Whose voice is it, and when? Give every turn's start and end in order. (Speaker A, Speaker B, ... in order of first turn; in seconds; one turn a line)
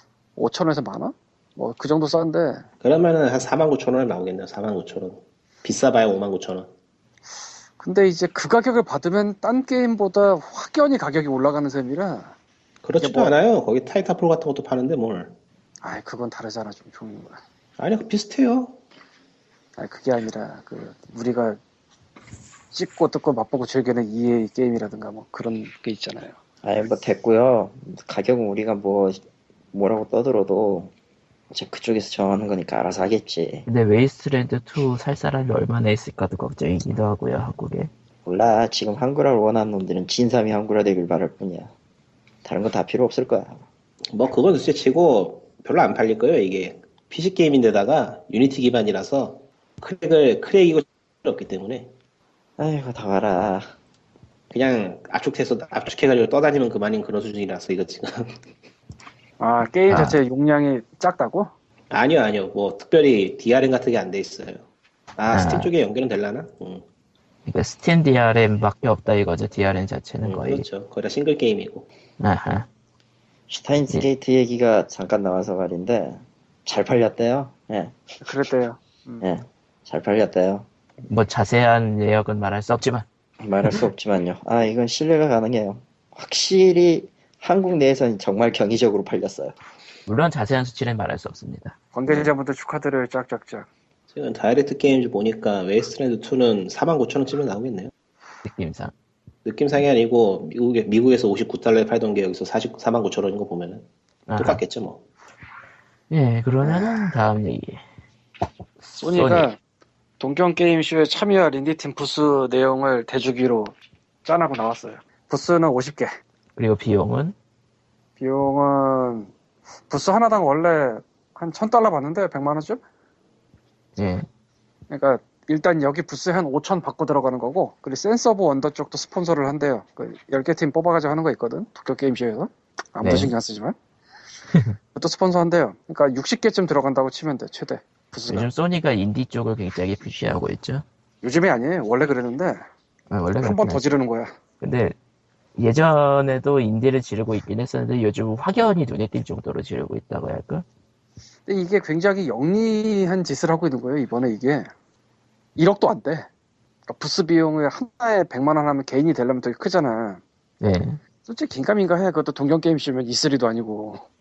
Speaker A: 0.4-2.6
Speaker B: 2.8-6.7
Speaker A: 7.8-12.3
Speaker B: 12.8-15.4
Speaker A: 13.0-13.3
Speaker A: 15.8-17.4
Speaker B: 17.8-18.8
Speaker A: 19.8-21.6
Speaker A: 22.7-26.4
Speaker C: 26.6-29.2
Speaker C: 29.7-30.9
Speaker C: 31.5-33.7
Speaker D: 33.7-37.9
Speaker C: 38.2-41.7
Speaker C: 42.5-43.6
Speaker B: 44.1-51.9
Speaker C: 52.6-53.7
Speaker B: 54.5-58.4
Speaker A: 59.4-61.5
Speaker D: 59.9-60.2
Speaker B: 61.9-64.7
Speaker B: 65.2-66.8
Speaker D: 65.3-65.7
Speaker D: 67.5-70.7
Speaker B: 70.2-71.9
Speaker D: 72.2-72.7
Speaker C: 73.5-78.0
Speaker A: 78.2-79.2
Speaker C: 79.2-80.7
Speaker D: 81.1-83.1
Speaker C: 83.4-89.5
Speaker D: 90.1-92.3
Speaker A: 91.9-93.7
Speaker B: 94.1-97.9
Speaker D: 98.4-98.9
Speaker B: 99.5-103.9
Speaker D: 104.3-104.6
Speaker B: 104.4-105.0
Speaker D: 106.1-107.8
Speaker A: 106.6-107.1
Speaker D: 108.9-109.5
Speaker A: 109.0-109.6
Speaker A: 110.2-113.7
Speaker A: 114.2-116.1
Speaker D: 116.6-117.3
Speaker A: 118.2-119.3
Speaker A: 119.9-122.8
Speaker D: 124.0-124.3
Speaker A: 124.9-133.8
Speaker D: 133.0-133.3
Speaker A: 134.9-138.5
Speaker D: 138.3-140.8
Speaker A: 141.2-142.6
Speaker D: 143.1-144.0
Speaker A: 143.4-144.3
Speaker D: 144.6-144.9
Speaker D: 145.6-150.7
Speaker A: 151.5-154.7
Speaker A: 155.6-156.3
Speaker A: 156.9-160.2
Speaker D: 160.6-161.0
Speaker A: 161.3-164.1